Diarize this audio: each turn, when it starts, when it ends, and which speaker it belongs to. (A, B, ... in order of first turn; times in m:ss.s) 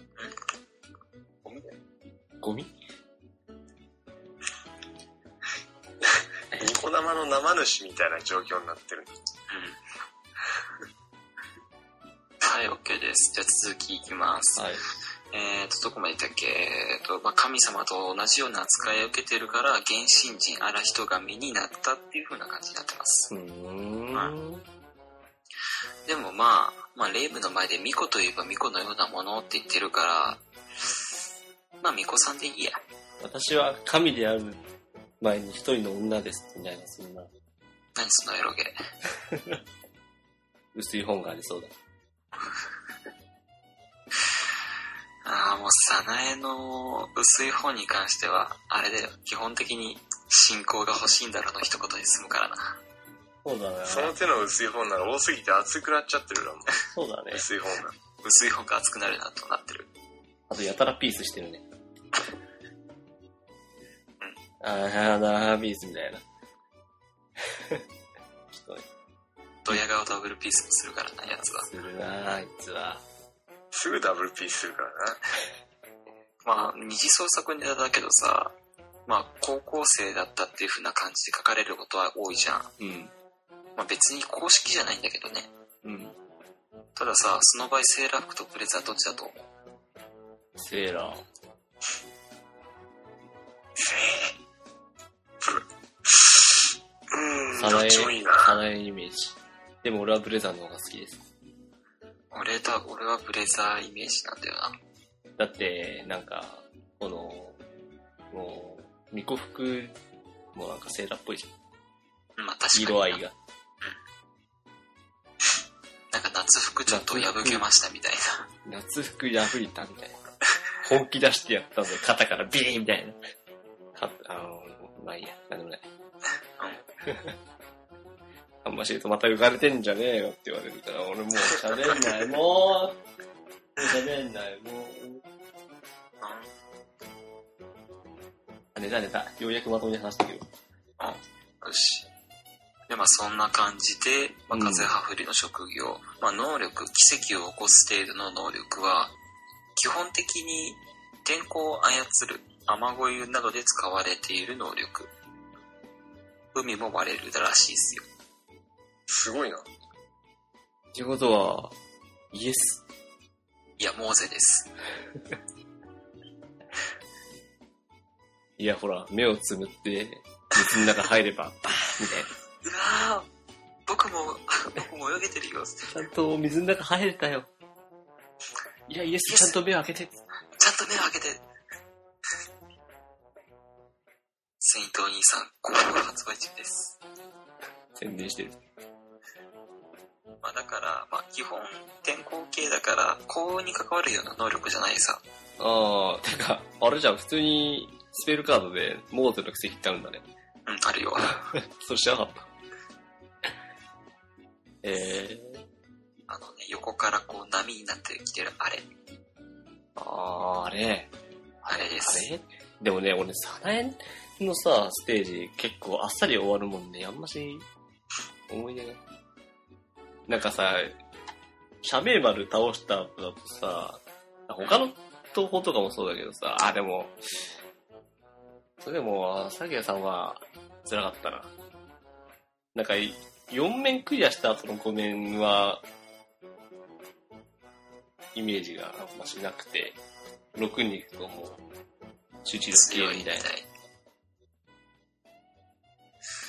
0:01.4-0:01.7 A
0:02.4-0:02.7 B
0:06.5-0:09.1 C
0:09.5-0:09.8 A
0:12.4-0:14.6 A
0:14.6-0:14.8 B
0:15.3-0:23.3 A
0:23.3-0:24.6 B
0:26.1-0:30.4 A
0:31.8-0:32.8 A
0:33.2-0:34.6 B
0:35.2-0:37.3 B
0:38.0-0:38.8 A
0:39.2-0:39.6 B
0:40.7-0:41.7 B
0:45.2-0:52.8 A
0:53.4-0:54.2 B
0:53.8-0:56.7 C
0:56.9-0:57.4 B
0:57.3-0:58.0 C
0:58.2-0:59.9 A
1:00.5-1:01.6 B
1:04.6-1:06.2 B
1:07.5-1:07.8 B
1:08.5-1:08.8 B
1:09.6-1:11.7 A
1:11.4-1:13.0 B
1:13.7-1:15.2 C
1:16.4-1:18.5 A
1:19.1-1:22.7 A
1:22.8-1:23.1 B
1:23.8-1:25.5 A
1:25.8-1:26.1 B
1:27.0-1:29.4 A
1:30.6-1:31.2 B
1:33.8-1:34.3 C
1:35.4-1:36.5 C
1:37.1-1:38.6 C
1:37.5-1:41.2 B
1:42.3-1:44.8 A
1:45.4-1:47.6 B
1:48.3-1:50.0 B
1:50.5-1:51.5 B
1:52.4-1:53.2 A
1:52.7-1:53.4 B
1:56.1-1:58.5 A
1:56.9-1:57.6 B
1:58.6-2:00.2 B
2:00.8-2:03.2 B
2:03.9-2:05.8 B
2:06.6-2:06.8 A
2:07.0-2:07.4 B
2:08.6-2:13.0 B
2:13.8-2:15.2 B
2:16.2-2:16.5 A
2:18.7-2:20.5 B
2:21.0-2:22.1 A
2:22.9-2:29.1 A
2:24.5-2:24.9 B
2:29.8-2:35.1 A
2:36.5-2:38.0 A
2:39.1-2:39.6 C
2:40.9-2:41.7 B
2:42.3-2:42.8 B
2:43.8-2:44.7 A
2:48.6-2:52.3 B
2:52.6-2:53.3 A
2:53.9-2:55.9 A
2:55.9-2:57.5 B
2:58.9-3:00.1 B
2:59.3-2:59.6 A
3:00.6-3:01.4 A
3:04.6-3:07.0 A
3:07.9-3:08.6 B
3:10.4-3:15.2 A
3:15.6-3:20.2 B
3:20.6-3:21.5 A
3:21.5-3:22.5 B
3:24.8-3:25.6 B
3:26.3-3:28.9 A
3:30.0-3:31.1 B
3:31.6-3:32.3 A
3:31.7-3:37.6 B
3:38.5-3:39.0 B
3:40.3-3:41.0 B
3:41.8-3:47.2 B
3:48.8-3:51.5 B
3:52.7-3:55.8 B
3:58.3-4:00.0 B
4:00.5-4:01.6 B
4:02.4-4:03.5 B
4:02.7-4:03.7 A